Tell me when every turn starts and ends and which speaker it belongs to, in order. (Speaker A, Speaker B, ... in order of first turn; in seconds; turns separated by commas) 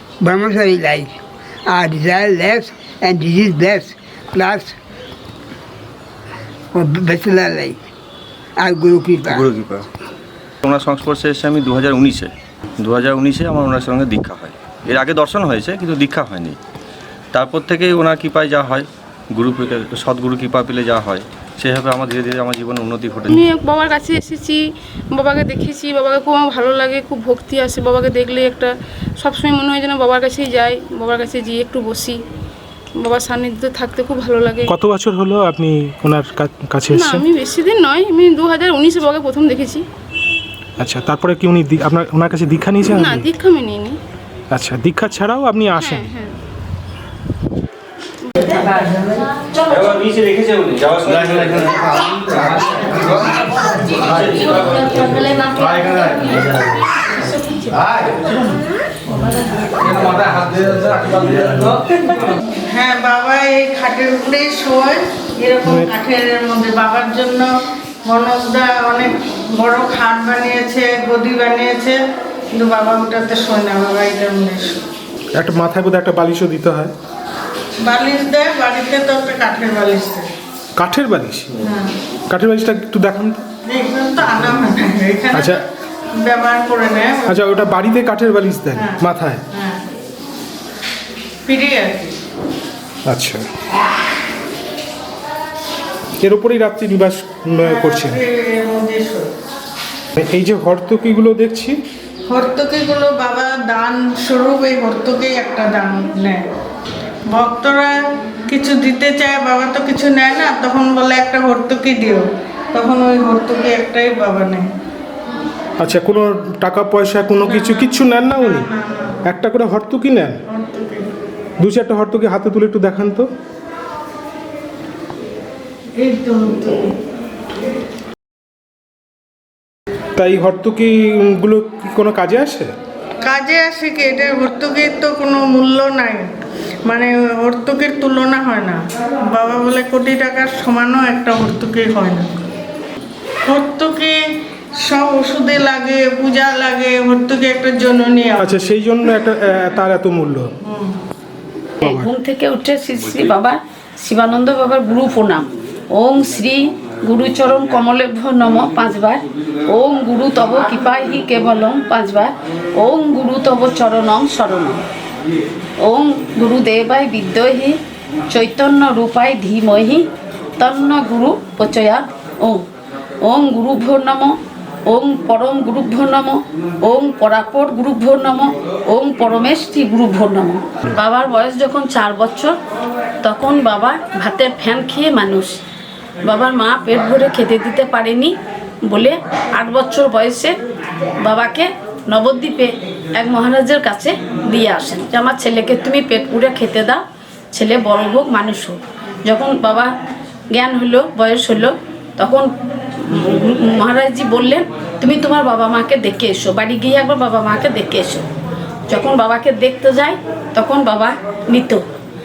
Speaker A: 0.2-4.8, Speaker A: 6.7-7.8, Speaker A: 8.6-9.4, Speaker B: 9.3-9.9, Speaker B: 10.6-16.6, Speaker B: 17.3-23.4, Speaker C: 23.3-24.6, Speaker C: 25.1-32.2, Speaker C: 33.0-34.7, Speaker D: 34.7-37.2, Speaker C: 36.9-39.8, Speaker D: 40.8-43.3, Speaker C: 42.8-44.0, Speaker D: 44.5-46.0, Speaker C: 45.8-46.4, Speaker B: 49.7-53.2, Speaker B: 54.0-55.8, Speaker C: 57.4-58.0, Speaker E: 62.7-67.5, Speaker E: 68.0-72.0, Speaker E: 72.5-74.8, Speaker D: 75.3-76.9, Speaker E: 77.8-80.3, Speaker D: 80.8-81.5, Speaker E: 81.6-82.0, Speaker D: 82.3-83.4, Speaker E: 83.6-85.6, Speaker E: 86.1-87.5, Speaker D: 87.3-89.4, Speaker E: 88.7-89.8, Speaker E: 91.5-92.2, Speaker D: 93.1-93.4, Speaker D: 96.2-98.2, Speaker E: 97.6-99.3, Speaker D: 100.2-101.8, Speaker E: 102.2-106.4, Speaker E: 107.2-108.0, Speaker E: 108.5-114.7, Speaker D: 115.8-118.7, Speaker E: 117.4-119.2, Speaker D: 119.2-120.4, Speaker E: 120.5-121.1, Speaker D: 121.6-123.2, Speaker E: 126.0-126.9, Speaker D: 130.2-132.7, Speaker E: 133.2-136.3, Speaker E: 136.8-142.3, Speaker E: 143.4-144.2, Speaker E: 144.8-148.5, Speaker D: 148.4-150.5, Speaker E: 150.6-151.0, Speaker F: 151.8-164.8, Speaker F: 165.8-167.8, Speaker F: 168.3-170.0, Speaker F: 170.6-172.6, Speaker F: 173.2-174.3, Speaker F: 174.9-182.6, Speaker F: 183.2-185.6, Speaker F: 186.2-188.3, Speaker F: 188.9-190.6, Speaker F: 191.2-197.0, Speaker F: 197.5-199.9, Speaker F: 200.5-208.2, Speaker F: 208.9-211.8